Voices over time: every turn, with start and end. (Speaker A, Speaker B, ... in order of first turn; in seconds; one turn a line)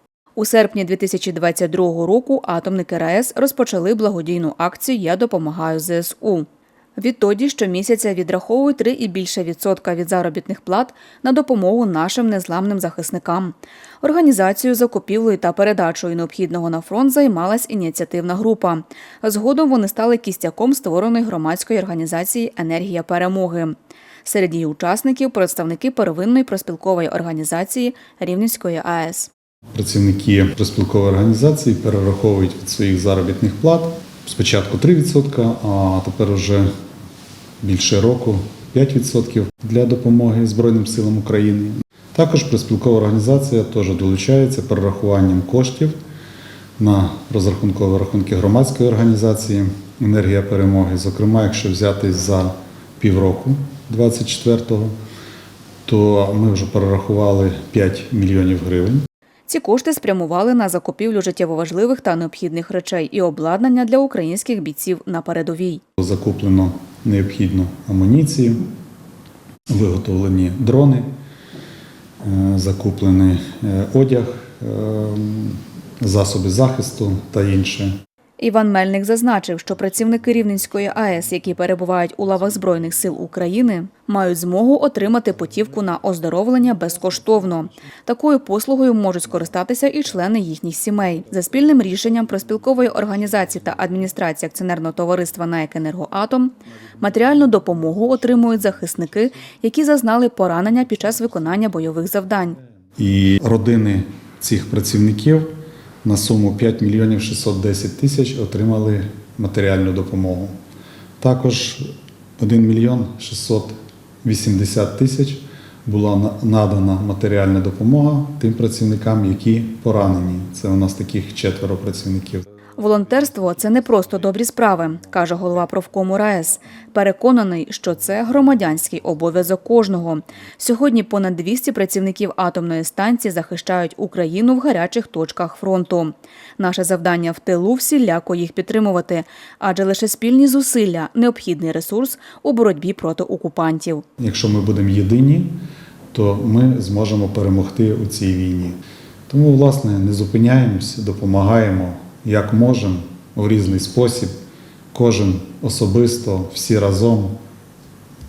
Speaker A: 0.4-29.3
Speaker B: 29.7-36.7
Speaker B: 37.6-46.0
Speaker B: 46.8-54.9
Speaker B: 55.9-59.0
Speaker A: 59.5-65.8
Speaker B: 66.0-68.7
Speaker B: 69.7-71.1
Speaker B: 72.2-77.9
Speaker A: 78.4-102.6
Speaker B: 103.0-105.5
Speaker B: 106.0-110.5
Speaker B: 111.2-122.4
Speaker A: 122.8-144.0
Speaker B: 144.2-145.5
Speaker B: 146.1-148.8
Speaker B: 149.3-154.3
Speaker B: 154.9-157.4